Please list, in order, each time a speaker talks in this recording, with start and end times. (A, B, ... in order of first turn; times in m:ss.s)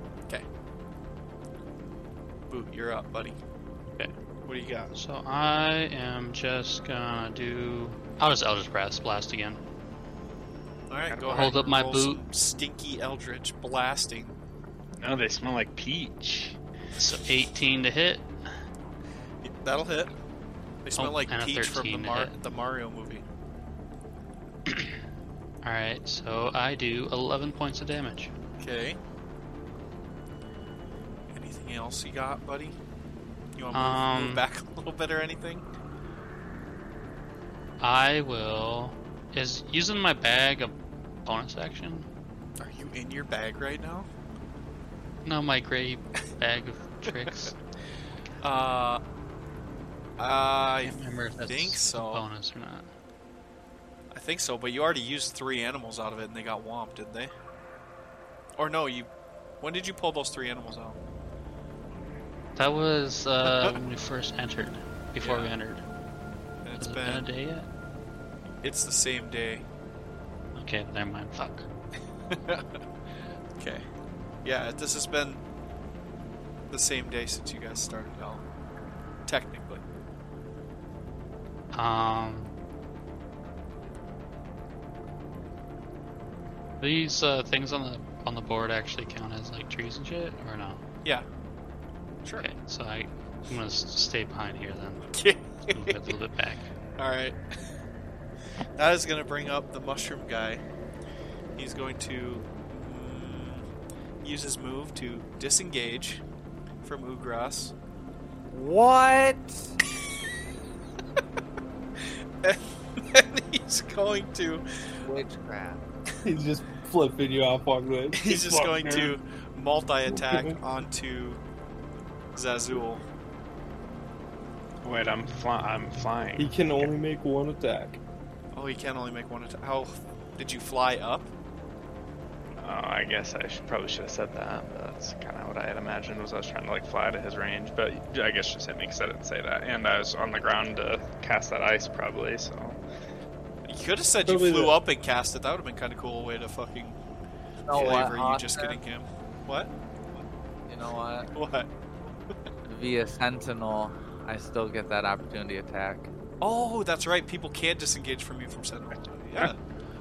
0:02.5-0:03.4 A
0:04.5-0:04.9 A
0:04.9-0:09.6 B
0:10.9-0:14.4 A
0:11.1-0:11.6 C
0:11.3-0:12.2 B
0:15.0-0:16.6 C
0:17.0-0:18.3 B
0:19.4-0:20.1 A
0:20.8-0:23.2 A
0:21.0-0:22.3 B
0:24.7-0:24.9 B
0:25.6-0:28.3 B
0:28.6-0:29.0 A
0:31.3-0:32.8 A
0:33.6-0:35.6 A
0:33.7-0:34.4 B
0:37.8-0:40.7 B
0:41.2-0:42.1 B
0:42.6-0:44.1 A
0:45.2-0:47.5 B
0:48.4-0:49.0 A
0:50.2-0:52.2 A
0:50.8-0:52.9 B
0:54.1-0:57.3 A
0:58.6-0:59.1 A
0:59.6-1:01.0 A
1:02.6-1:05.8 B
1:03.5-1:03.8 A
1:05.2-1:05.5 A
1:06.6-1:07.3 A
1:06.8-1:07.7 B
1:08.6-1:09.6 A
1:10.6-1:11.7 B
1:12.3-1:12.8 A
1:13.6-1:13.9 A
1:14.4-1:15.4 A
1:16.7-1:18.4 A
1:19.3-1:19.8 A
1:21.7-1:22.5 B
1:26.8-1:30.8 B
1:32.4-1:35.1 B
1:35.1-1:36.1 A
1:35.7-1:36.6 B
1:37.0-1:37.4 A
1:38.8-1:40.6 A
1:41.6-1:43.6 A
1:44.2-1:46.2 A
1:46.8-1:47.7 A
1:48.5-1:49.7 D
1:52.4-1:54.6 A
1:55.0-1:55.8 D
1:56.2-1:59.1 E
1:58.1-2:01.4 A
2:00.1-2:00.6 E
2:02.3-2:03.0 A
2:04.8-2:06.9 C
2:06.4-2:08.0 E
2:08.5-2:11.3 A
2:12.6-2:22.8 C
2:23.6-2:27.0 A
2:24.3-2:24.8 E
2:27.6-2:28.8 D
2:27.7-2:29.7 A
2:30.7-2:31.3 D
2:31.3-2:31.7 A
2:32.6-2:36.1 D
2:36.4-2:39.6 A